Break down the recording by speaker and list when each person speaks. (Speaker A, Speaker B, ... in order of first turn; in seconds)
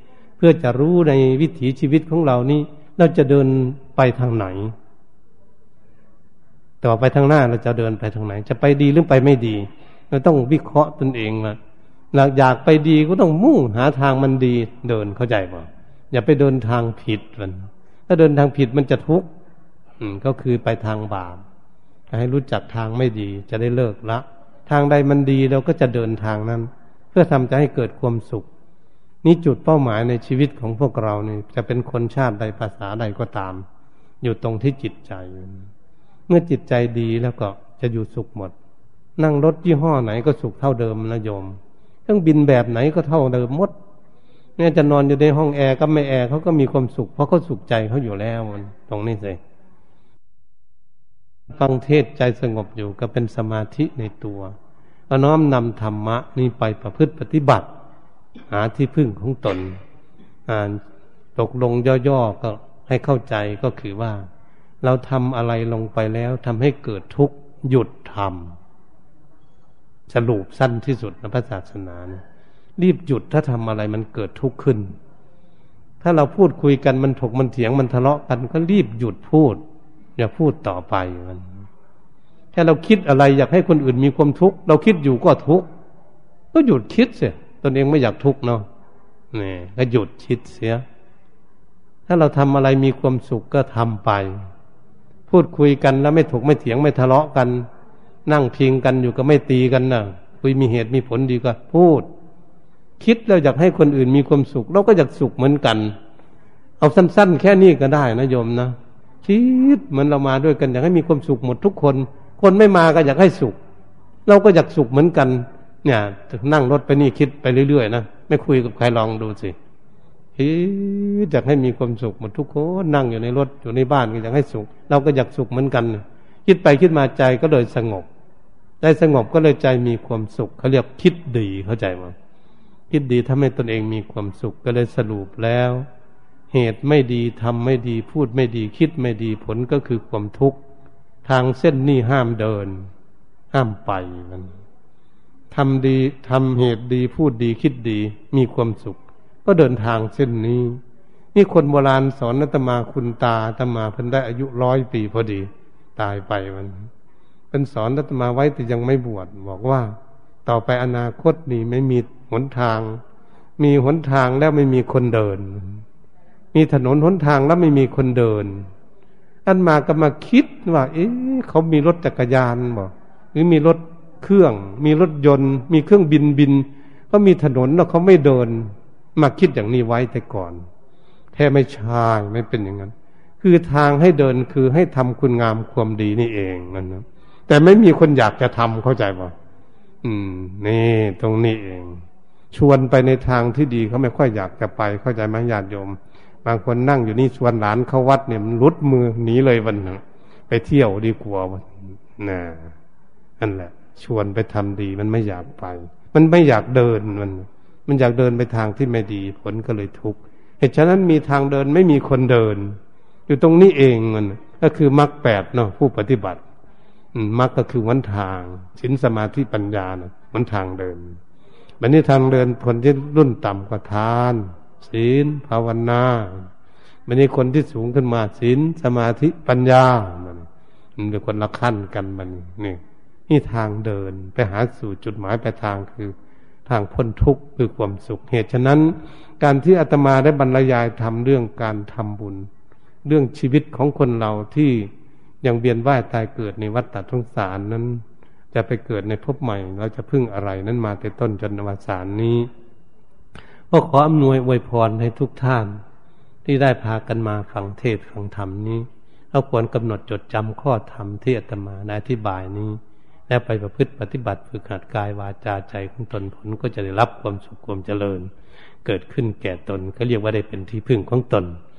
Speaker A: 0.4-4.7, 6.8-11.6, 12.1-19.3, 20.0-21.4, 22.1-28.5, 29.2-33.6, 34.2-35.7, 36.3-38.5, 39.2-43.7, 44.6-49.4, 51.5-54.5, 55.1-57.7, 58.5-59.8, 60.5-60.8, 61.4-64.3, 64.8-68.6, 70.1-72.2, 72.8-74.9, 76.0-79.6, 80.2-81.6, 82.5-85.7, 86.5-88.7, 89.3-90.8, 92.1-94.4, 95.3-97.7, 98.3-102.1, 103.0-106.0, 106.8-113.6, 114.3-119.6, 120.4-128.1, 128.8-132.2, 132.9-135.8, 136.5-140.6, 141.2-142.9, 143.5-144.6, 145.5-150.8, 151.3-156.9, 157.5-163.0, 163.6-165.8, 166.5-168.7, 169.5-180.6, 181.3-189.3, 190.0-202.8, 203.4-216.4, 217.1-221.2, 221.8-226.5, 227.1-236.1, 236.7-242.5, 243.1-244.9, 245.4-252.5, 253.7-255.8, 256.4-268.3, 268.9-271.6